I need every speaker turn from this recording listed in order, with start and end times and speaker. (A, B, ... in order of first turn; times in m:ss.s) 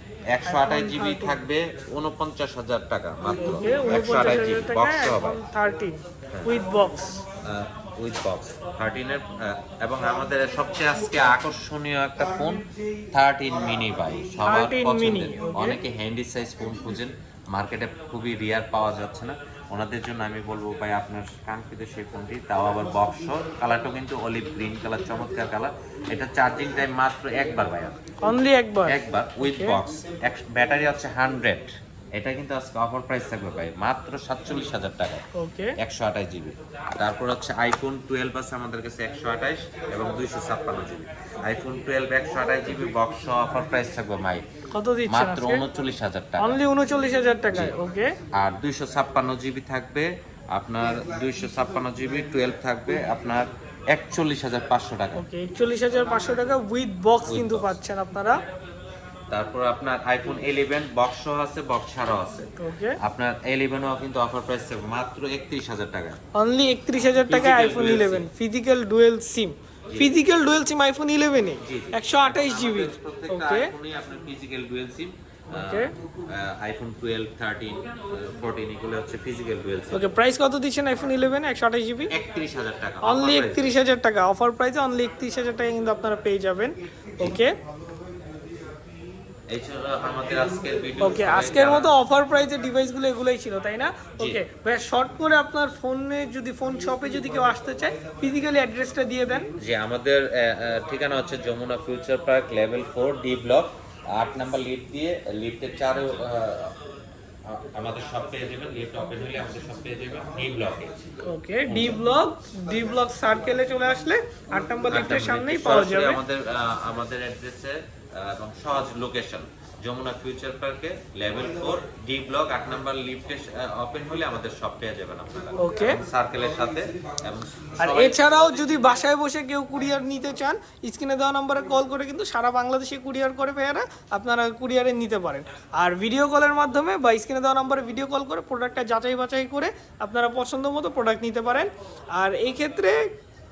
0:00.3-0:05.4 A
0:00.5-0:01.4 B
0:03.4-0:07.2 B
0:07.4-0:28.2 A
0:14.5-0:15.8 B
0:28.2-0:29.8 B
0:28.9-0:35.2 A
0:35.4-0:35.8 B
0:35.8-0:44.4 A
0:44.7-0:45.6 B
0:45.1-0:46.6 A
0:46.4-0:48.2 B
0:48.3-0:55.2 A
0:55.2-0:58.4 B
0:57.2-0:57.8 A
0:59.3-1:06.2 A
1:02.6-1:03.0 B
1:06.4-1:13.7 B
1:07.0-1:08.3 A
1:09.9-1:10.2 A
1:11.6-1:20.1 A
1:15.5-1:15.9 B
1:19.9-1:22.1 B
1:22.1-1:23.7 A
1:23.0-1:27.6 B
1:29.5-1:32.0 A
1:31.0-1:39.5 B
1:39.6-1:46.8 A
1:47.5-1:52.0 A
1:51.3-1:56.2 B
1:54.9-2:08.8 A
2:05.6-2:06.0 B
2:07.8-2:23.0 B